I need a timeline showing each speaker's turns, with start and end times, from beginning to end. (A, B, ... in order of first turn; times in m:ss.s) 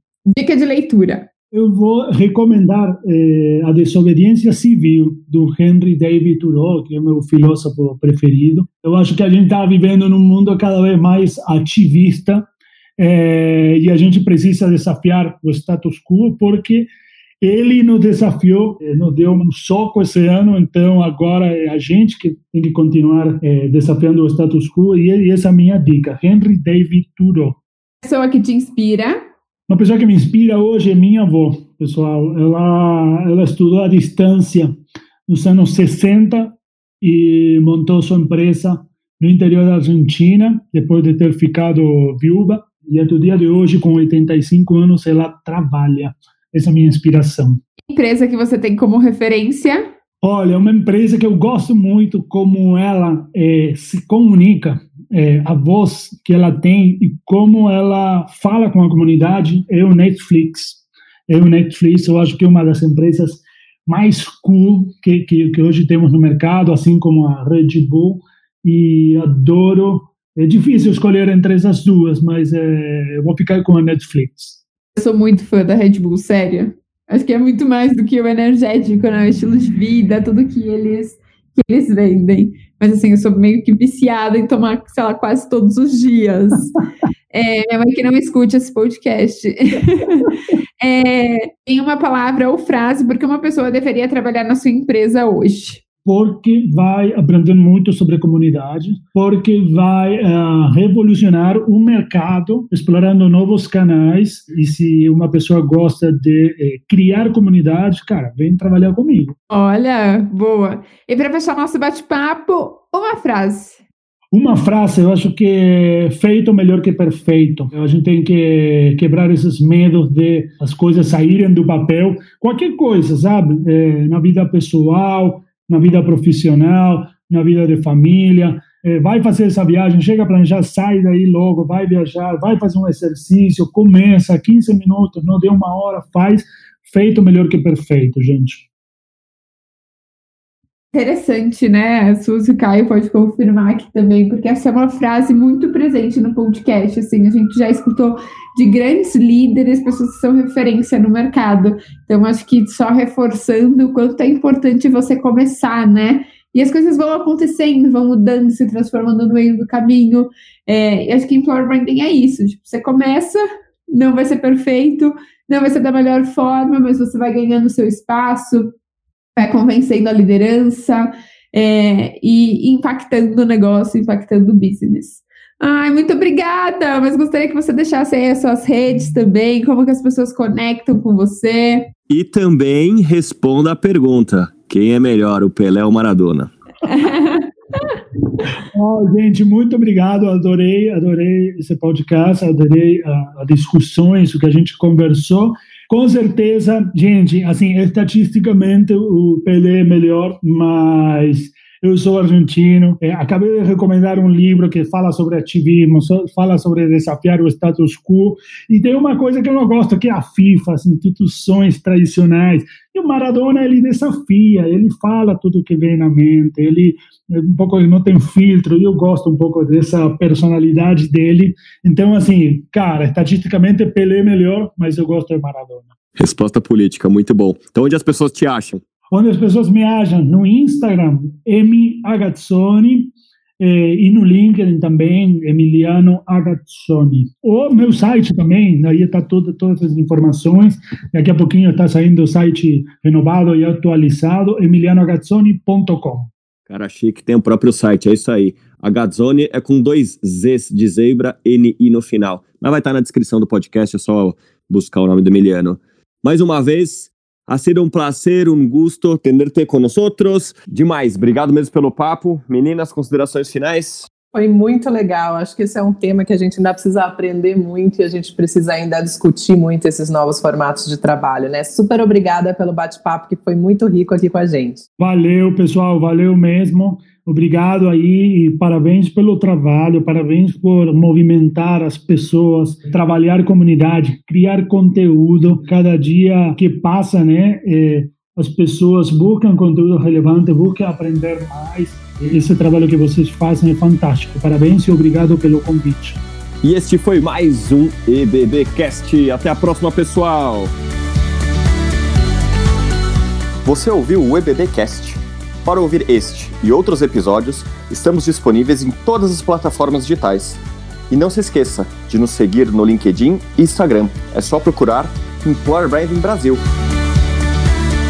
0:00.3-0:01.3 A
0:01.5-0:16.9 B
0:17.4-0:27.6 B
0:28.0-0:29.2 A
0:29.7-0:34.8 B
0:35.3-0:47.6 B
0:47.9-0:49.9 A
0:50.2-1:14.6 B
1:15.0-1:26.7 A
1:27.3-1:35.8 A
1:36.0-1:49.4 B
1:49.5-1:53.8 A
1:54.3-2:18.6 B
2:20.9-2:48.8 A
2:49.4-3:01.9 A
3:02.1-3:06.5 C
3:06.9-3:07.5 A
3:08.7-3:45.9 B
3:46.2-3:48.8 C
3:49.1-4:06.3 B
4:06.7-4:24.1 C
4:24.3-4:34.9 D
4:35.0-4:56.2 B
4:56.6-5:00.7 C
5:03.6-5:16.6 C